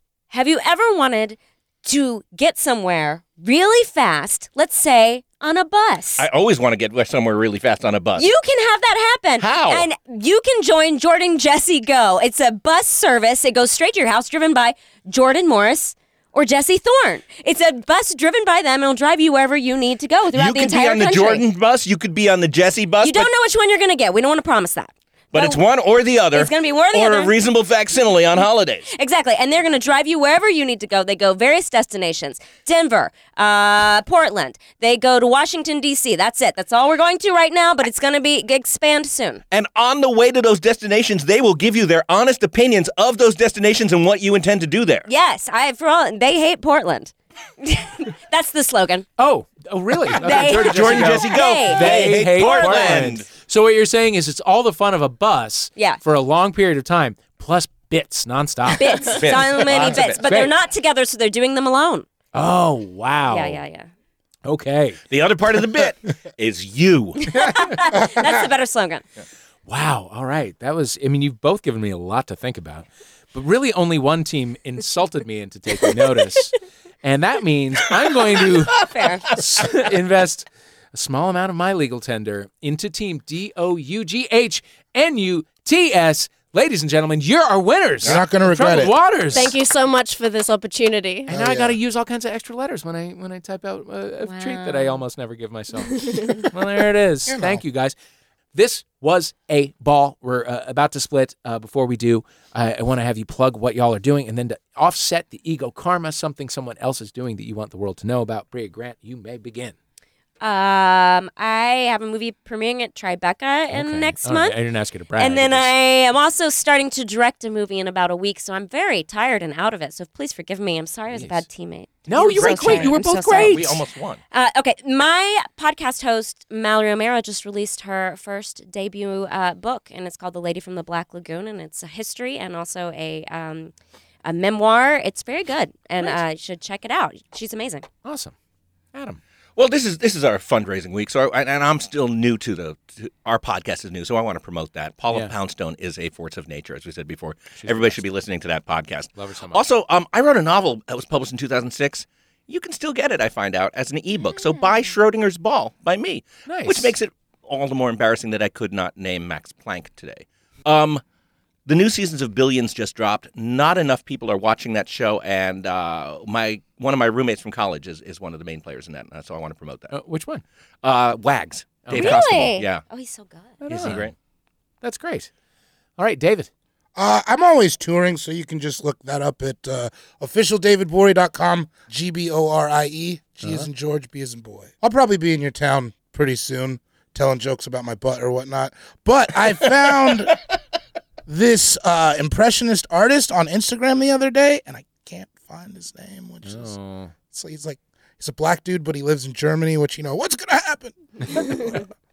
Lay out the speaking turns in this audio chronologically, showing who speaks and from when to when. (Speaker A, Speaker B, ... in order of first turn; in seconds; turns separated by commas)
Speaker A: 0.3-6.3, Speaker B: 6.2-8.3, Speaker A: 8.2-21.5, Speaker B: 9.4-9.9, Speaker B: 20.3-23.3, Speaker A: 23.0-25.6, Speaker B: 25.3-28.9, Speaker A: 26.3-27.3, Speaker A: 28.9-39.4, Speaker B: 39.5-45.1, Speaker A: 45.1-49.1, Speaker C: 49.2-60.5, Speaker A: 50.2-53.0, Speaker B: 50.2-53.3, Speaker A: 58.8-62.1, Speaker B: 59.0-60.2, Speaker C: 62.3-63.6, Speaker A: 63.3-63.9, Speaker C: 64.5-65.0, Speaker B: 65.1-67.8, Speaker A: 67.3-69.0, Speaker C: 69.7-89.5, Speaker A: 78.7-79.3, Speaker D: 88.0-89.4, Speaker E: 89.3-91.3, Speaker C: 91.3-97.9, Speaker D: 91.3-91.8, Speaker A: 94.2-95.0, Speaker D: 97.3-97.6, Speaker C: 98.5-109.8, Speaker A: 110.4-114.6, Speaker C: 113.7-115.7, Speaker A: 115.2-123.7, Speaker C: 121.1-121.5, Speaker C: 122.1-123.8, Speaker B: 122.2-124.2, Speaker A: 124.3-133.7, Speaker A: 134.2-137.9, Speaker C: 138.0-138.3, Speaker C: 138.9-139.2, Speaker B: 139.6-161.0, Speaker C: 147.6-148.1, Speaker C: 149.2-149.7, Speaker C: 156.5-157.0, Speaker B: 161.7-169.9, Speaker C: 169.9-170.4, Speaker B: 170.8-172.8, Speaker C: 171.8-172.2, Speaker A: 171.9-173.6, Speaker E: 172.1-172.3, Speaker C: 173.6-174.1, Speaker B: 173.7-174.2, Speaker C: 174.8-175.3, Speaker C: 176.0-176.5, Speaker D: 177.0-190.4, Speaker C: 183.4-183.7, Speaker D: 191.3-196.7, Speaker C: 196.4-197.1, Speaker D: 197.3-201.9